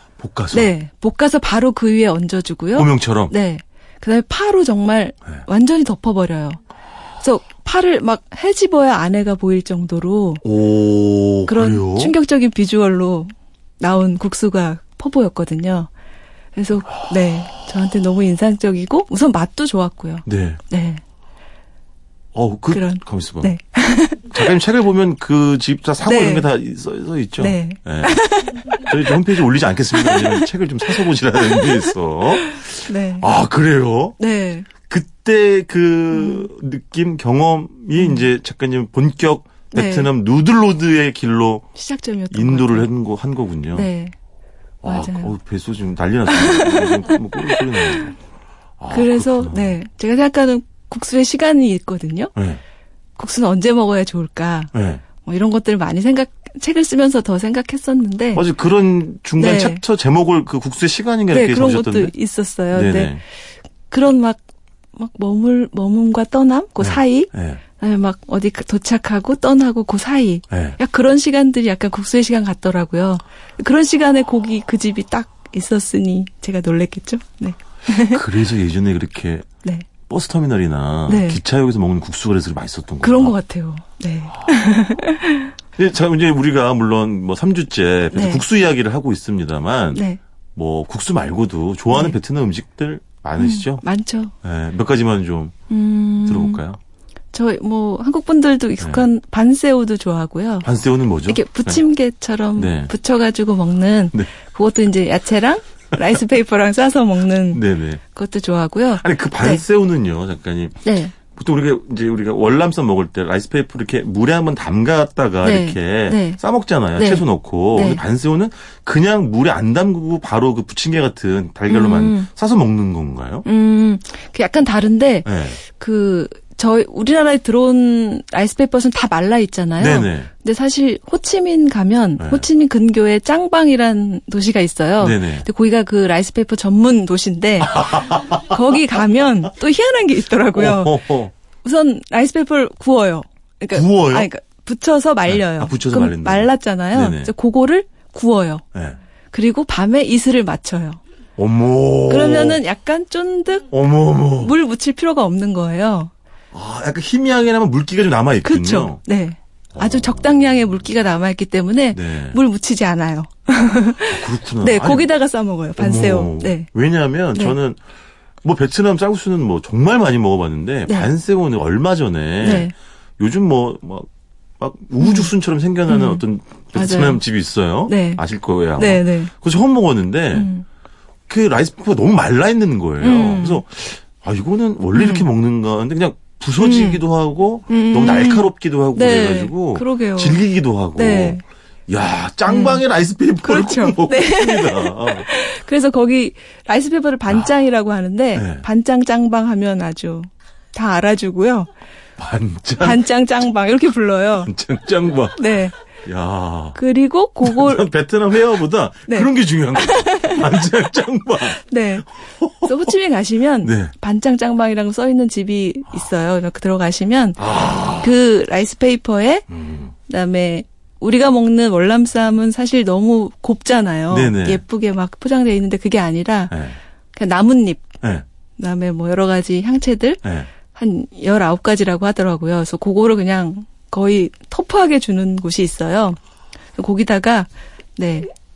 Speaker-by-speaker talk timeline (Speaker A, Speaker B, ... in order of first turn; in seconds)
Speaker A: 0.2-0.7, 2.7-3.3, 10.4-12.1, 20.2-20.6, 22.3-23.5, 24.3-34.2, 34.8-41.7, 42.3-43.9, 44.8-48.1, 48.8-49.8, 52.3-52.6, 54.7-55.0, 58.3-62.1, 62.7-63.2, 66.8-67.6, 70.5-70.8, 78.0-79.5, 80.0-83.3, 85.8-90.0, 90.5-93.8, 94.4-95.5, 96.2-96.8, 98.8-99.0, 100.6-101.8, 102.5-102.9, 107.5-108.0, 108.9-123.5, 125.2-125.6, 129.8-130.3, 132.2-132.4, 135.0-135.5, 137.6-138.6, 140.5-141.3, 143.7-144.3, 145.3-147.3, 151.4-152.6, 153.7-154.5, 156.5-159.0, 159.7-160.3, 161.9-162.4, 164.1-165.1, 165.8-167.8, 168.4-174.1, 174.6-180.5, 181.3-195.3, 198.3-198.6, 202.2-203.0, 204.4-206.8, 207.4-211.6, 212.4-212.9, 213.6-213.9, 217.4-218.1, 219.5-219.9, 224.1-224.6, 226.5-226.8, 230.2-230.5
Speaker B: 0.5-6.6, 7.2-10.4, 11.5-15.9, 16.6-21.0, 22.7-24.3, 26.0-26.5, 27.4-29.1, 29.9-30.4, 31.5-31.9, 32.4-33.3, 34.2-34.7, 36.1-36.5, 38.0-38.2, 39.7-40.1, 41.7-42.9, 43.7-44.1, 44.8-45.4, 46.3-48.1, 48.9-52.3, 53.2-58.4, 59.4-59.8, 61.3-63.2, 63.9-64.4, 65.0-78.2, 81.1-81.4, 83.0-85.5, 88.1-88.4, 89.9-90.2, 91.9-92.2, 93.4-94.3, 95.7-96.6, 97.3-100.7, 101.3-109.6, 110.8-111.1, 115.4-116.4, 117.0-118.0, 121.7-122.3, 123.4-141.0, 141.6-148.6, 149.3-151.0, 152.1-153.7, 154.4-156.1, 158.4-166.7, 172.4-172.7, 175.0-175.3, 175.9-176.2, 176.7-177.2, 177.9-178.2, 178.8-179.3, 180.3-180.6, 183.0-183.6, 184.9-185.3, 186.6-187.0, 187.7-190.4, 190.9-191.4, 192.5-192.8, 193.4-201.7, 202.8-204.5, 205.3-205.7, 206.8-207.8, 209.1-210.4, 211.6-212.1, 212.6-217.4, 218.0-219.5, 220.1-226.6, 227.1-227.9, 228.6-236.2, 236.8-238.3